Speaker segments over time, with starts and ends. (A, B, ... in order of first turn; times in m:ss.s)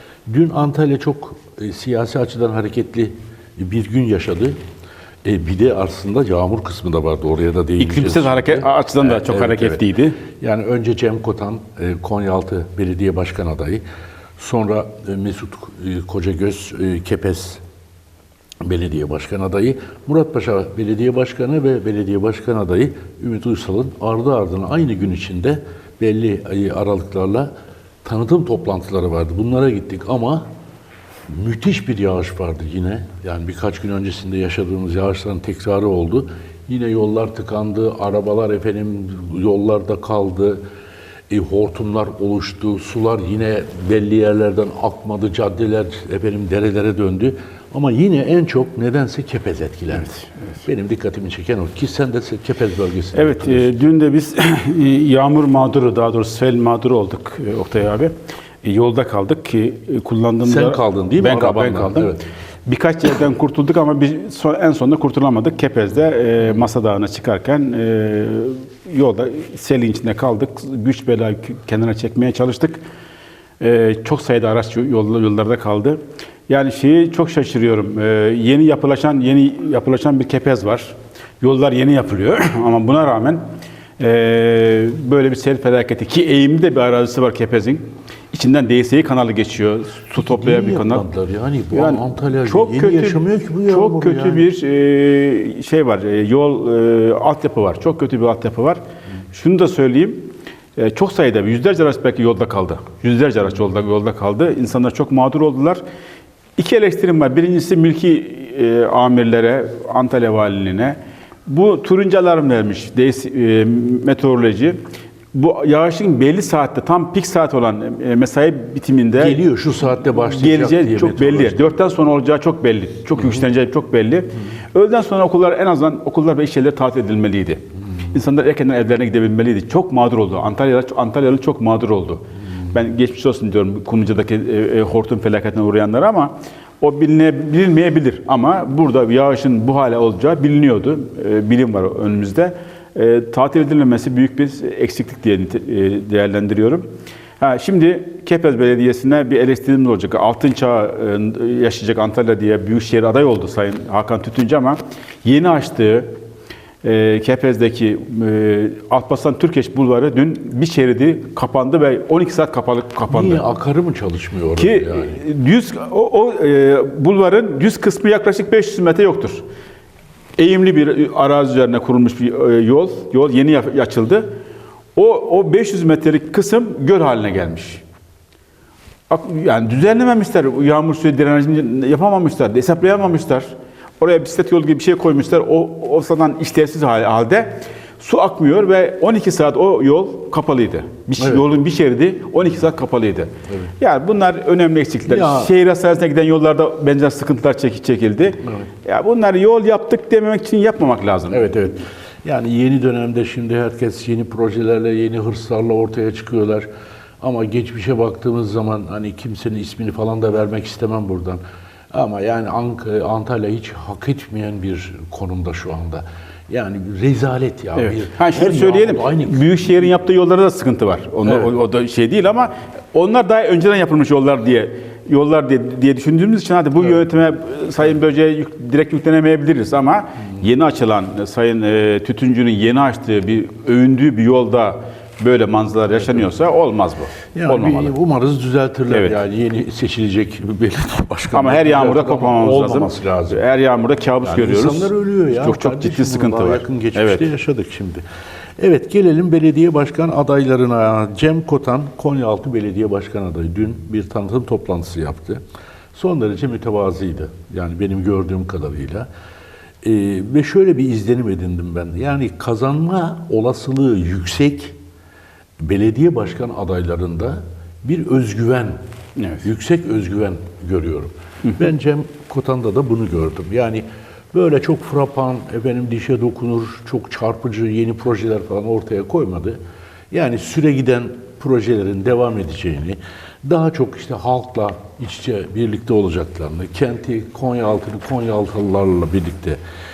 0:00.3-0:04.6 A
0:05.2-0:09.8 A
0:07.8-0:10.2 B
0:10.3-0:13.8 A
0:14.4-0:17.6 A
0:18.6-0:27.5 A
0:28.0-0:30.4 A
0:31.3-0:40.6 A
0:41.3-0:53.7 A
0:53.1-1:02.2 B
1:00.4-1:02.2 A
1:02.7-1:12.8 B
1:13.6-1:16.0 B
1:16.5-1:23.4 B
1:24.0-1:31.0 B
1:30.2-1:34.5 A
1:31.7-1:38.8 B
1:39.3-1:45.8 B
1:46.6-1:54.8 B
1:55.3-2:26.8 B
1:59.2-2:01.6 A
2:27.4-2:36.1 B
2:36.8-2:43.4 B
2:43.1-2:45.2 A
2:44.6-2:49.4 B
2:50.4-2:54.3 B
2:55.0-2:57.8 B
2:59.1-3:03.4 B
3:04.0-3:21.5 B
3:11.2-3:11.4 A
3:15.0-3:15.5 A
3:18.4-3:18.7 A
3:21.3-3:26.7 A
3:27.2-3:31.4 A
3:31.9-3:39.6 A
3:37.8-3:57.9 B
3:41.2-3:41.5 A
3:57.3-4:03.4 A
3:58.9-3:59.2 B
4:01.3-4:07.3 B
4:04.2-4:08.0 A
4:08.6-4:15.4 A
4:15.9-4:19.1 A
4:19.8-4:24.7 A
4:25.6-4:28.8 A
4:29.2-4:29.4 B
4:29.4-4:39.6 A
4:40.1-4:49.6 A